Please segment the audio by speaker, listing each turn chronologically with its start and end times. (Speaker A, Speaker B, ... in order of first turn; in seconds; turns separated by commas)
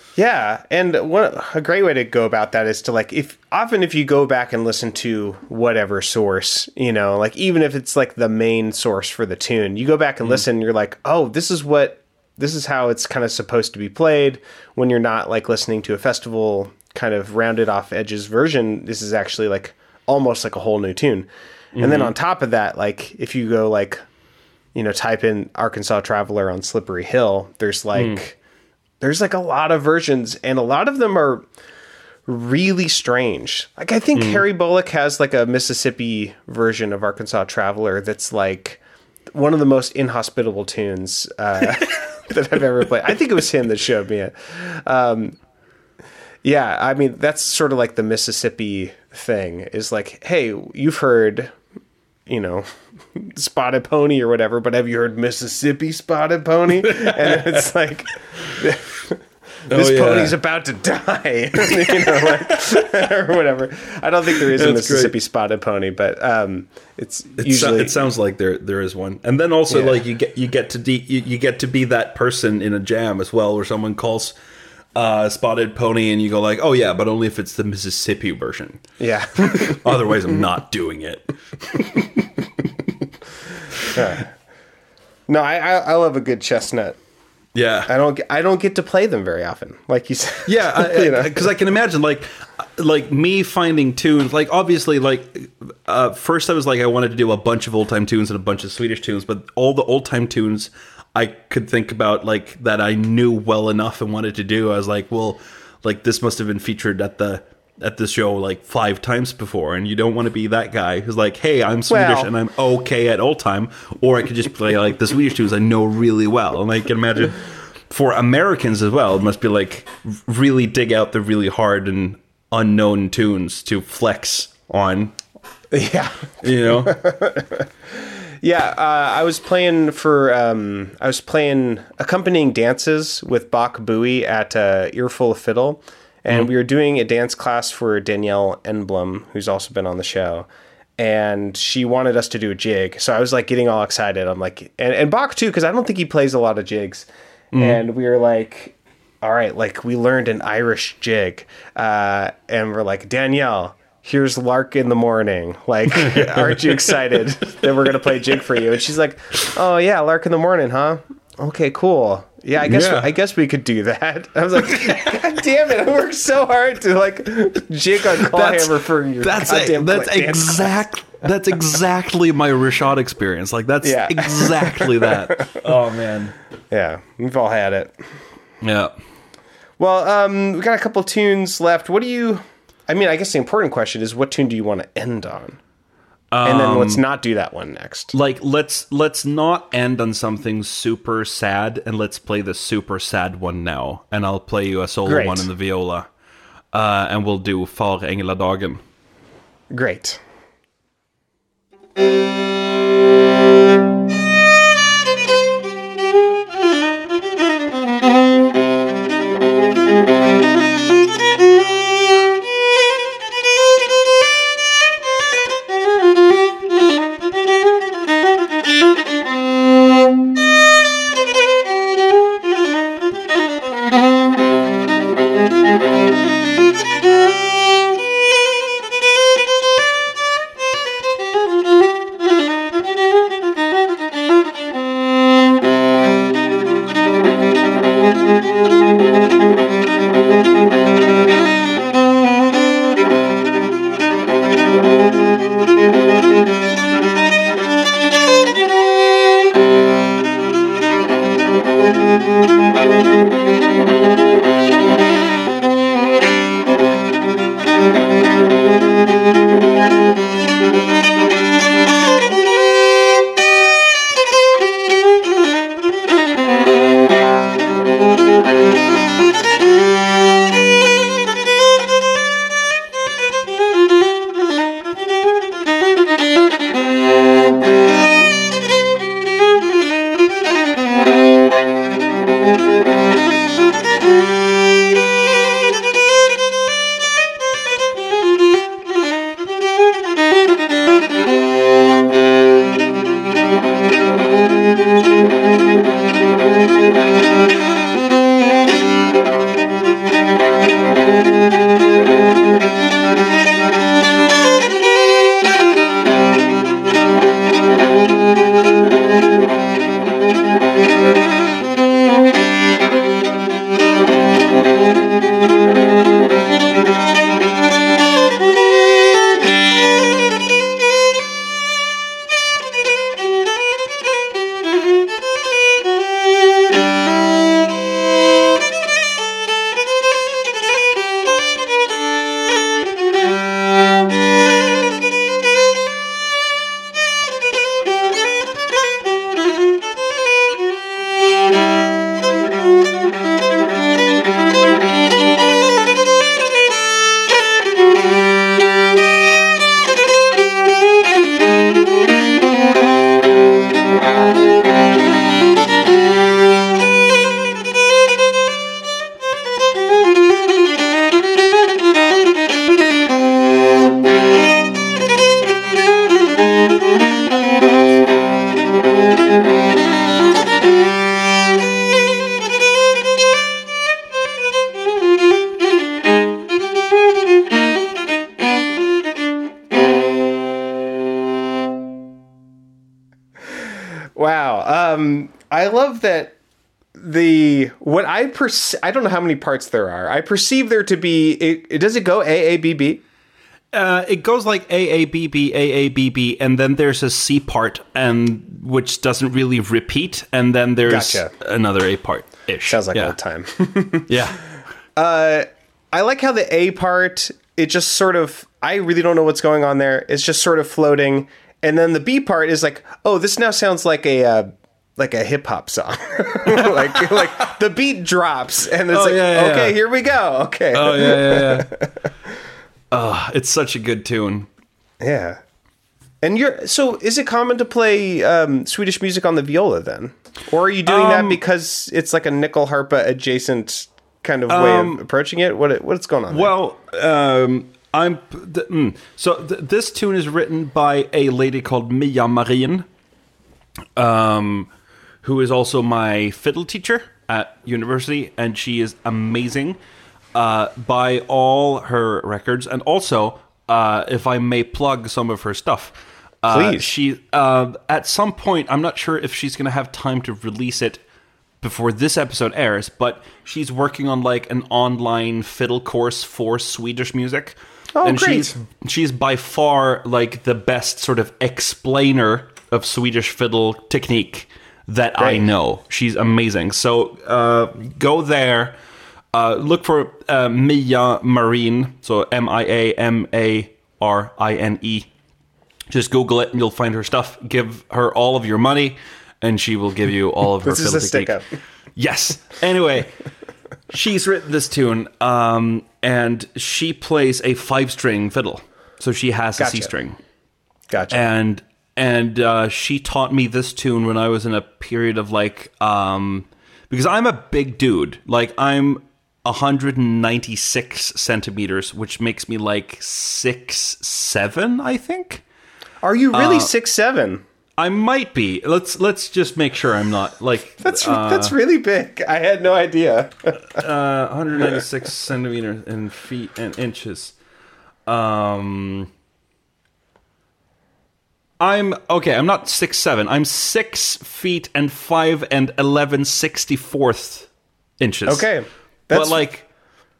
Speaker A: 0.2-24.0, Speaker B: 21.7-22.1, Speaker A: 24.7-28.4, Speaker B: 27.9-28.2, Speaker A: 29.0-31.4, Speaker A: 32.3-38.8, Speaker B: 34.1-34.4, Speaker A: 39.3-45.4, Speaker A: 46.4-51.5, Speaker A: 52.3-68.0, Speaker B: 56.7-57.6, Speaker B: 59.7-60.3, Speaker B: 61.7-62.5, Speaker B: 64.3-65.1, Speaker B: 67.4-74.3, Speaker A: 69.7-70.0, Speaker B: 74.9-78.8, Speaker A: 79.0-80.2, Speaker B: 79.3-82.3, Speaker B: 83.7-84.1, Speaker A: 83.9-84.3, Speaker A: 85.3-87.0, Speaker B: 87.5-87.9, Speaker A: 87.9-91.5, Speaker B: 90.5-125.1, Speaker A: 111.9-112.3, Speaker A: 125.7-170.8, Speaker B: 126.4-127.0, Speaker B: 147.5-147.8, Speaker B: 155.9-158.4, Speaker B: 162.6-163.1, Speaker B: 164.6-165.2, Speaker B: 168.0-176.3, Speaker A: 173.8-175.6, Speaker A: 176.7-177.9, Speaker B: 178.6-178.9, Speaker A: 179.8-185.6, Speaker B: 186.3-187.0, Speaker A: 186.4-188.1, Speaker B: 188.1-196.1, Speaker A: 195.1-195.5, Speaker B: 196.7-198.8, Speaker A: 199.7-200.2, Speaker A: 384.1-386.3, Speaker A: 386.9-393.0, Speaker B: 393.7-403.1, Speaker A: 400.9-401.3, Speaker A: 402.7-404.2, Speaker B: 404.1-404.4, Speaker A: 404.9-422.1, Speaker B: 416.5-417.3, Speaker B: 418.9-419.8, Speaker B: 420.7-421.7, Speaker B: 422.9-424.5, Speaker A: 425.0-425.4, Speaker A: 426.2-436.5, Speaker B: 430.8-431.4, Speaker B: 434.5-435.0, Speaker B: 436.3-442.9, Speaker B: 443.9-444.7, Speaker B: 445.2-449.8, Speaker B: 450.3-461.0, Speaker A: 456.5-456.9, Speaker B: 461.6-478.8, Speaker A: 467.9-468.5, Speaker A: 475.2-475.5, Speaker B: 479.3-485.1, Speaker B: 485.9-491.4, Speaker A: 490.6-491.5, Speaker B: 491.9-493.1, Speaker B: 493.9-500.2, Speaker A: 499.6-499.9, Speaker A: 500.9-501.2, Speaker B: 501.1-515.4, Speaker A: 516.0-517.4, Speaker B: 516.3-516.7, Speaker B: 517.8-521.5, Speaker A: 520.8-523.8, Speaker B: 523.7-527.3, Speaker B: 528.0-529.1, Speaker B: 531.6-538.5, Speaker A: 538.3-539.4, Speaker B: 539.1-539.6